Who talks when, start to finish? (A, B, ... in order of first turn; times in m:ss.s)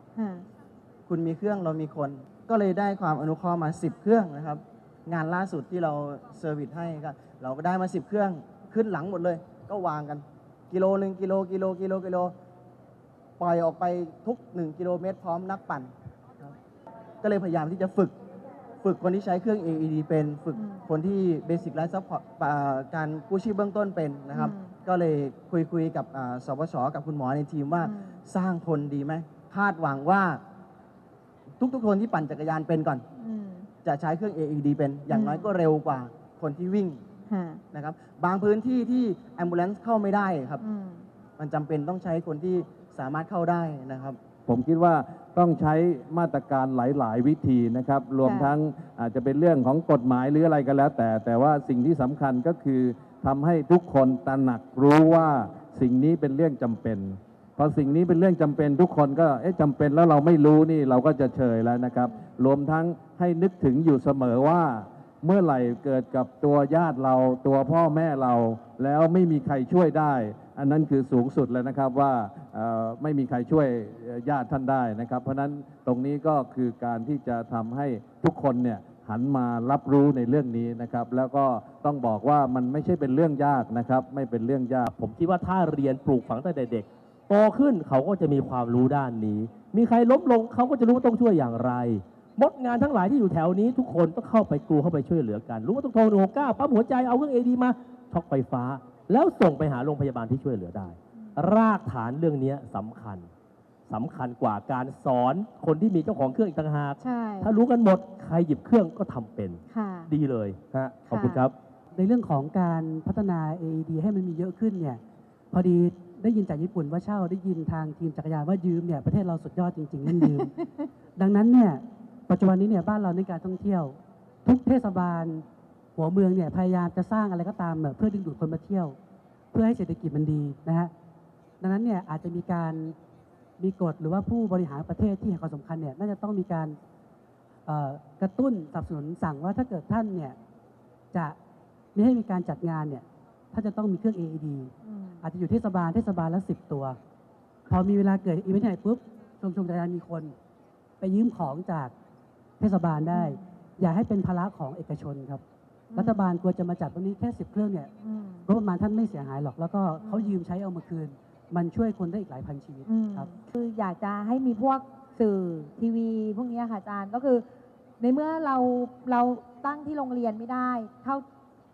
0:00.2-0:00.5 A
0:01.1-0:12.3 B
0:13.4-0:16.6 B
0:17.2-0:18.1 B
0:18.8-0:30.4 B
0:20.5-0:20.8 A
0:24.3-0:24.8 A
0:27.8-0:28.2 A
0:31.6-0:33.1 B
0:33.2-0:33.7 A
0:33.8-0:37.0 B
0:35.1-0:35.5 A
0:37.3-0:37.6 A
0:37.7-0:40.6 B
0:40.6-0:41.1 A
0:41.4-0:44.2 B
0:44.5-1:24.9 C
0:48.2-0:48.5 A
1:24.9-1:43.3 D
1:43.9-1:51.5 D
1:47.0-1:47.5 A
1:49.7-1:50.1 A
1:51.1-1:51.5 A
1:52.0-1:55.0 E
1:55.5-2:00.5 E
2:01.2-2:05.4 E
2:06.0-2:09.0 E
2:09.5-2:10.9 E
2:11.6-2:13.0 E
2:13.6-2:16.8 E
2:17.7-2:20.4 E
2:22.0-2:27.0 E
2:24.8-2:25.2 A
2:27.7-2:30.3 E
2:31.0-2:31.9 E
2:32.6-2:35.4 E
2:33.1-2:33.4 A
2:35.9-2:36.2 A
2:36.0-2:37.9 E
2:38.0-2:38.5 A
2:38.5-2:43.3 E
2:40.0-2:40.4 A
2:42.9-2:47.4 F
2:48.0-2:51.2 F